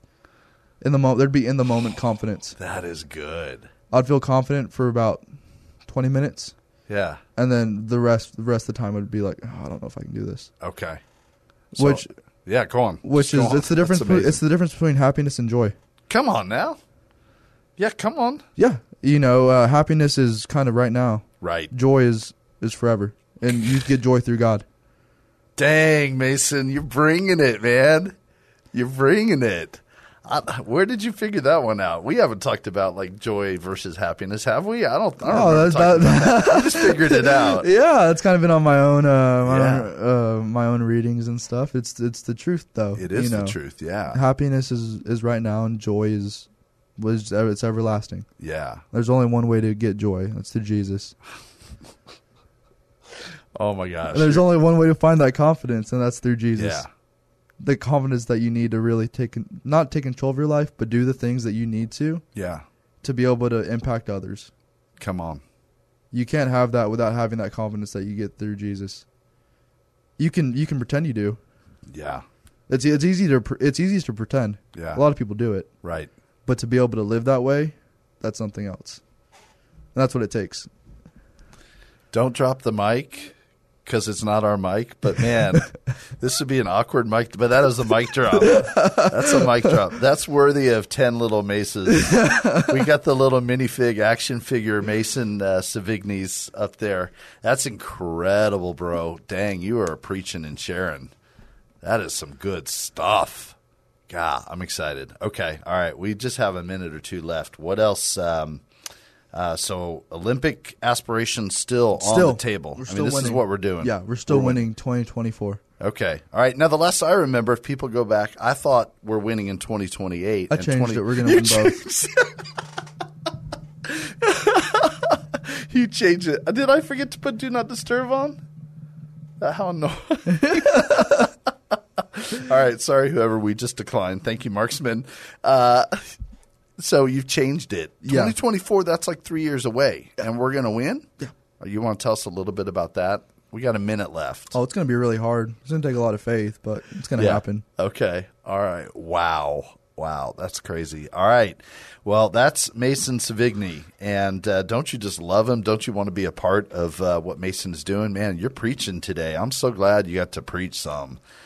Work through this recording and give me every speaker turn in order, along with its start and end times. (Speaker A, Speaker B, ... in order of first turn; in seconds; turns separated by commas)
Speaker A: 0.8-2.6, Speaker B: 2.6-3.7, Speaker A: 3.9-5.2, Speaker A: 5.9-6.5, Speaker B: 6.9-7.2, Speaker A: 7.3-10.5, Speaker B: 10.6-11.0, Speaker B: 11.7-14.4, Speaker A: 11.8-12.1, Speaker A: 13.0-15.7, Speaker B: 16.1-16.8, Speaker B: 17.8-18.4, Speaker A: 18.6-24.6, Speaker B: 21.4-21.7, Speaker B: 25.6-28.1, Speaker B: 28.7-37.7, Speaker A: 35.2-43.5, Speaker B: 39.4-39.9, Speaker B: 43.0-44.2, Speaker A: 44.1-48.3, Speaker B: 48.4-48.8, Speaker A: 48.9-51.1, Speaker B: 53.5-54.5, Speaker A: 54.1-56.8, Speaker B: 56.6-56.9, Speaker A: 57.6-62.2, Speaker B: 62.3-62.6, Speaker A: 63.0-64.5, Speaker B: 65.0-65.4, Speaker A: 66.1-69.0, Speaker A: 70.2-71.4, Speaker B: 71.9-72.2, Speaker A: 72.7-75.7, Speaker B: 74.7-75.0, Speaker B: 75.8-76.1, Speaker A: 76.5-79.0, Speaker A: 79.9-80.7, Speaker B: 82.1-101.1, Speaker A: 88.4-89.7, Speaker A: 91.9-92.8, Speaker B: 101.8-103.5, Speaker B: 104.1-108.6, Speaker B: 109.3-114.6, Speaker A: 112.0-115.6, Speaker B: 115.8-122.3, Speaker A: 120.5-121.8, Speaker B: 123.8-128.4, Speaker B: 129.4-131.3, Speaker A: 130.3-131.2, Speaker B: 132.0-135.9, Speaker B: 136.8-141.1, Speaker A: 138.0-138.3, Speaker B: 141.6-144.5, Speaker A: 144.5-147.6, Speaker B: 147.2-161.2